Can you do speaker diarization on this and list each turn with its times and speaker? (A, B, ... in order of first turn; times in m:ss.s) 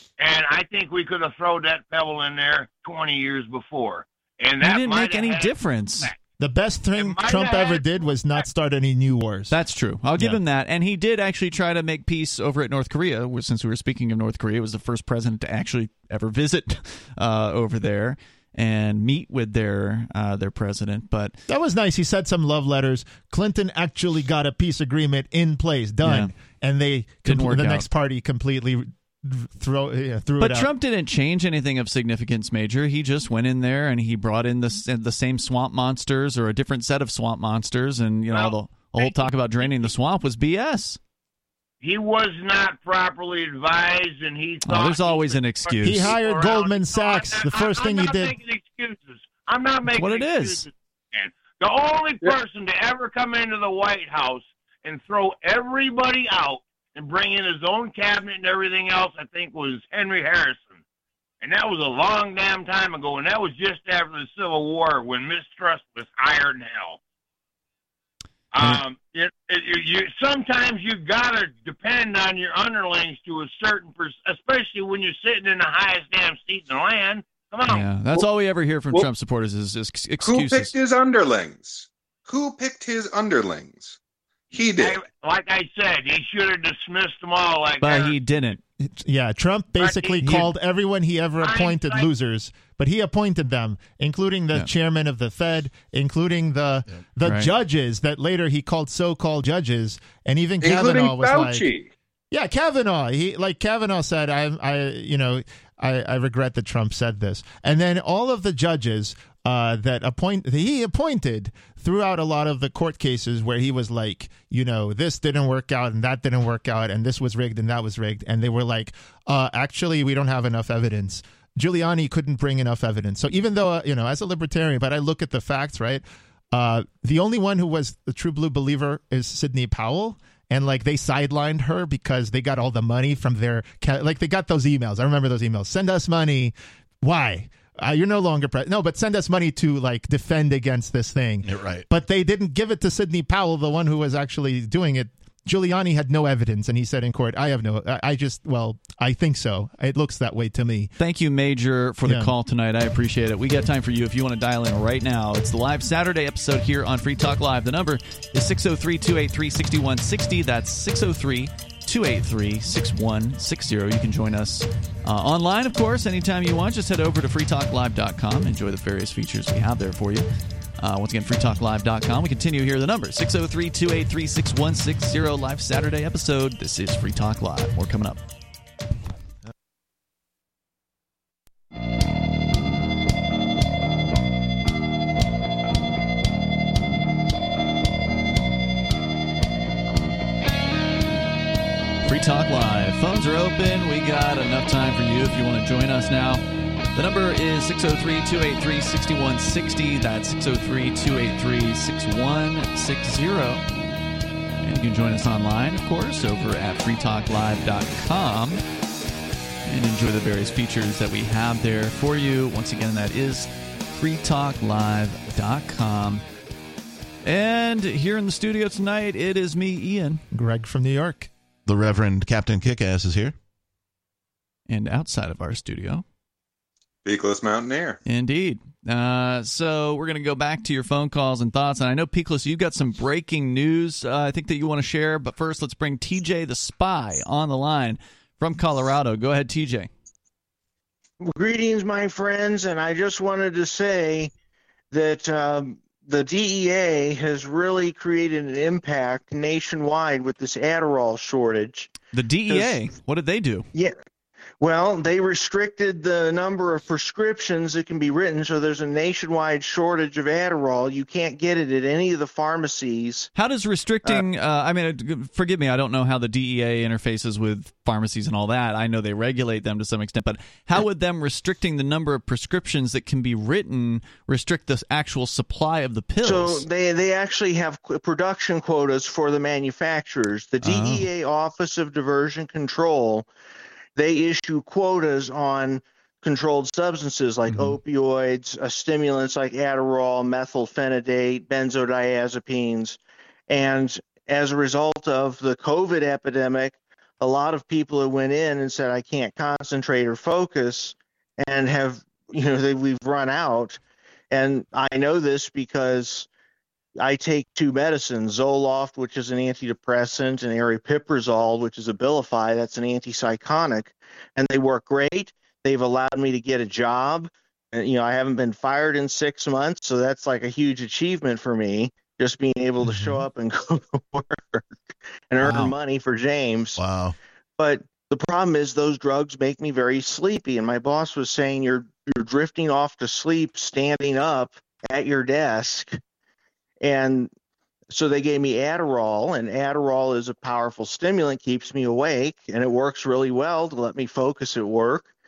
0:00.2-0:06.2 A
0:04.6-0:06.1 B
0:06.4-0:09.5 C
0:07.0-0:08.4 A
0:09.5-0:21.4 B
0:21.5-0:30.7 C
0:26.0-0:26.3 B
0:27.3-0:27.9 B
0:30.4-0:41.0 B
0:38.3-0:39.9 A
0:41.8-1:00.8 A
0:44.6-0:46.2 B
0:45.8-0:48.4 C
0:49.9-0:50.6 B
1:01.4-1:07.0 A
1:08.5-1:17.8 A
1:17.7-1:20.7 B
1:20.2-1:24.0 D
1:24.5-1:25.0 D
1:24.7-1:28.2 A
1:27.8-1:28.6 B
1:28.8-1:41.7 C
1:29.8-1:30.5 A
1:31.4-1:32.1 A
1:37.2-1:37.5 B
1:40.6-1:41.9 D
1:42.3-2:30.9 C
2:21.4-2:21.9 E
2:31.0-2:50.2 B
2:32.0-2:32.3 C
2:50.8-2:58.2 B
3:12.1-3:16.4 B
3:16.9-3:23.6 B
3:24.6-3:28.6 B
3:29.6-3:36.2 B
3:37.2-3:40.2 B
3:40.3-3:41.3 C
3:41.6-3:43.4 E
3:44.7-3:46.0 B
3:47.0-3:48.0 D
3:48.1-3:59.9 B
4:01.2-4:04.3 F
4:04.9-4:11.9 F
4:12.1-4:13.7 B
4:12.5-4:12.7 F
4:14.6-4:23.3 F
4:23.4-4:36.6 B
4:36.2-4:43.3 F
4:40.6-4:41.1 B
4:44.0-4:53.0 F
4:47.5-4:47.8 B
4:53.5-5:03.8 F
5:04.3-5:06.3 F
5:07.0-5:24.6 F
5:22.9-5:23.2 B
5:25.3-5:26.8 F
5:25.4-5:25.7 B
5:26.8-5:27.2 E
5:27.6-5:36.0 F
5:36.8-5:37.3 F
5:37.9-5:45.1 F